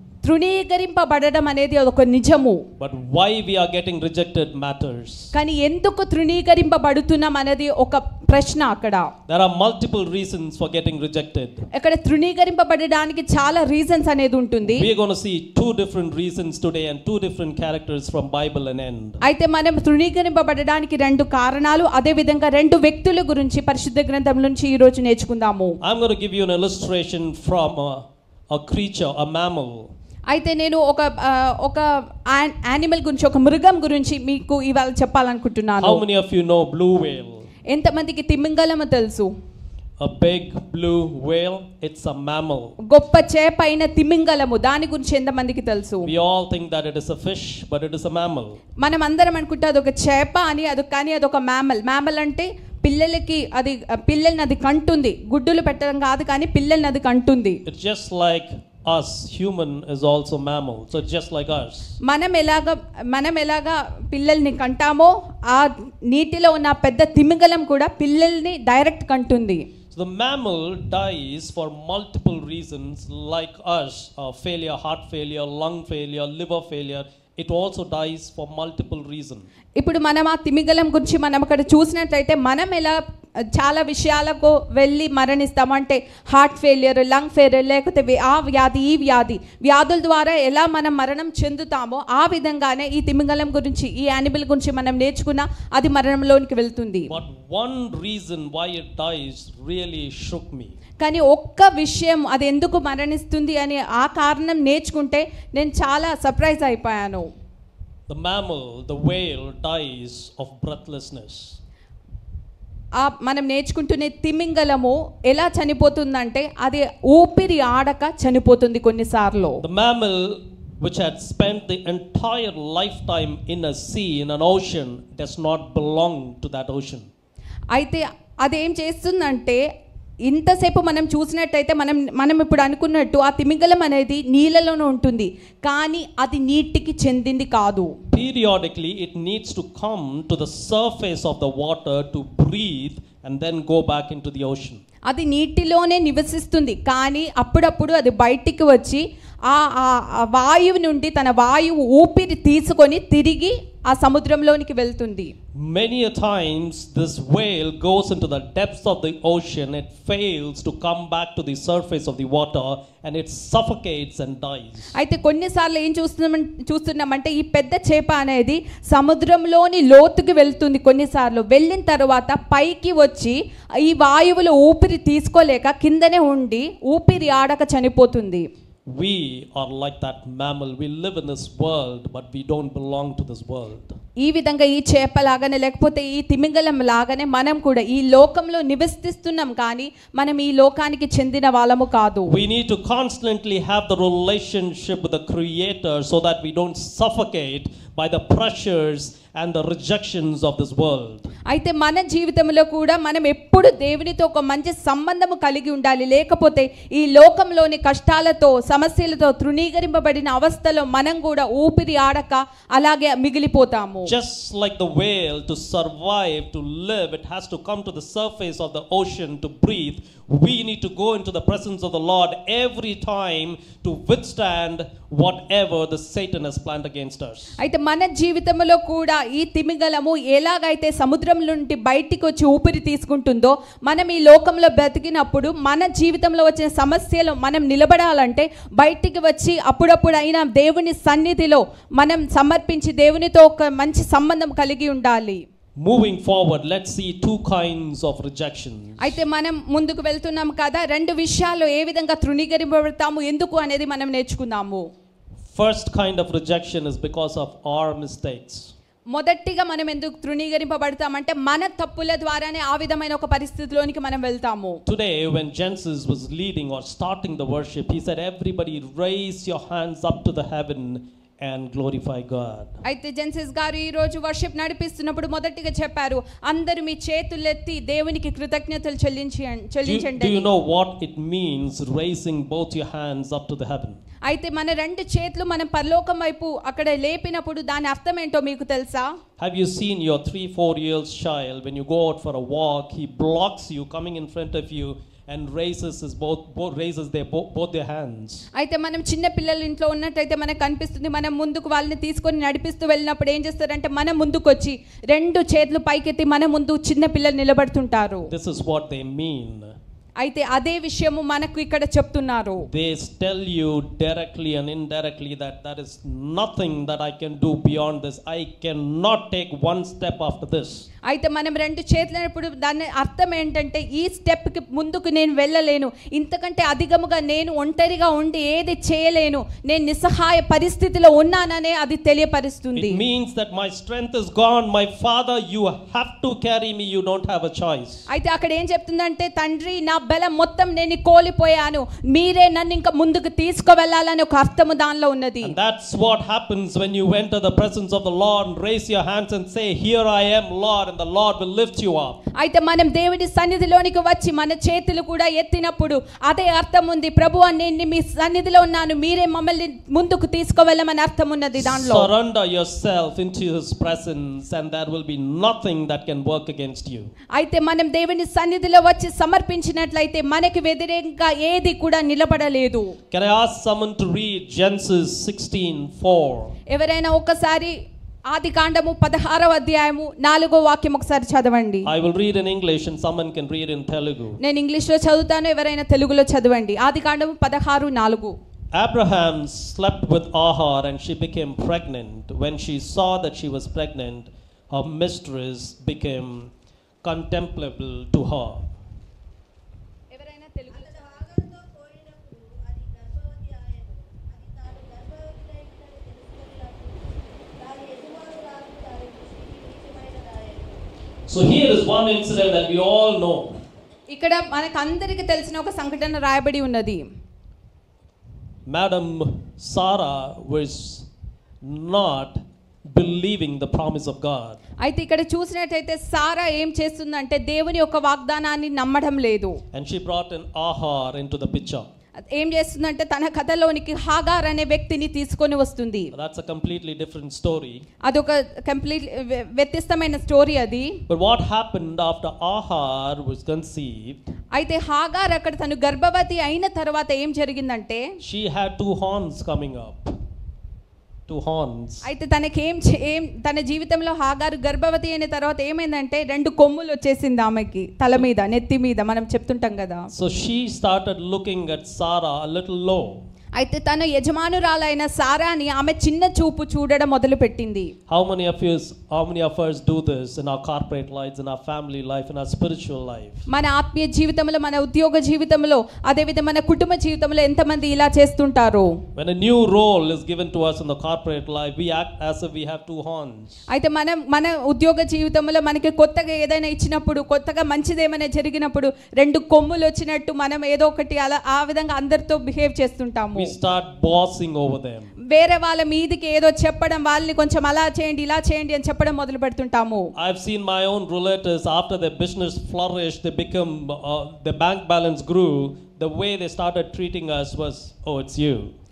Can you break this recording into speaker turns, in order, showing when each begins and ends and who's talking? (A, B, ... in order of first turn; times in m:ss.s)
0:00.2-0:02.6 A
0:02.8-0:05.3 B
0:05.3-0:09.1 A
0:09.3-0:11.6 B
0:11.7-0:14.9 A
0:14.6-0:19.2 B
0:19.2-0:25.8 A
0:25.8-0:29.9 B
0:30.3-0:36.0 A
0:35.8-0:37.5 B
0:37.7-0:39.3 A
0:40.0-0:42.8 B
0:42.9-0:46.1 A
0:46.0-0:48.6 B
0:48.8-0:57.6 A
0:57.6-1:01.9 B
1:02.0-1:09.6 A
1:09.9-1:19.5 B
1:19.8-1:37.1 A
1:37.1-1:40.7 B
1:41.0-1:47.3 A
1:48.1-1:51.6 B
1:53.0-1:59.6 A
1:59.6-2:07.1 B
2:07.7-2:09.6 A
2:10.2-2:17.9 A
2:18.1-2:24.8 B
2:25.1-2:35.3 A
2:35.5-2:44.9 B
2:45.0-2:58.5 A
2:58.9-3:03.9 B
3:04.2-3:12.3 A
3:12.3-3:21.3 B
3:21.5-3:34.1 A
3:34.0-3:47.5 B
3:47.6-4:05.4 A
4:05.8-4:09.2 B
4:09.0-4:14.8 A
4:15.5-4:18.7 B
4:19.1-4:24.8 A
4:24.8-4:32.7 B
4:32.8-4:40.5 A
4:39.8-4:44.0 B
4:44.2-4:49.2 A
4:49.4-4:58.5 B
4:58.5-5:08.3 A
5:08.3-5:09.7 B
5:10.2-5:12.7 A
5:12.7-5:20.9 B
5:21.0-5:33.0 A
5:32.8-5:38.0 B
5:38.1-5:45.5 A
5:45.4-5:52.2 B
5:52.4-6:02.1 A
6:01.6-6:07.1 B
6:07.3-6:13.0 A
6:13.1-6:16.5 B
6:16.7-6:17.8 A
6:18.3-6:21.9 A
6:21.8-6:24.4 B
6:24.4-6:28.4 A
6:28.7-6:36.5 B
6:37.0-6:38.6 B
6:40.1-6:41.3 A
6:40.7-6:50.8 C
6:51.3-6:53.6 B
6:54.1-6:57.0 A
6:58.7-7:01.1 B
7:01.6-7:04.6 B
7:04.8-7:09.6 A
7:09.7-7:11.9 B
7:12.3-7:16.1 A
7:16.1-7:17.8 B
7:18.0-7:21.0 A
7:21.1-7:24.2 B
7:24.5-7:28.1 A
7:28.2-7:30.1 B
7:31.3-7:32.1 B
7:32.0-7:40.1 A
7:40.1-7:43.2 B
7:43.5-7:47.9 A
7:48.1-7:53.4 B
7:53.5-7:59.0 A
7:59.1-8:03.6 B
8:03.7-8:13.5 A
8:13.3-8:15.1 B
8:15.3-8:20.1 A
8:20.2-8:28.7 B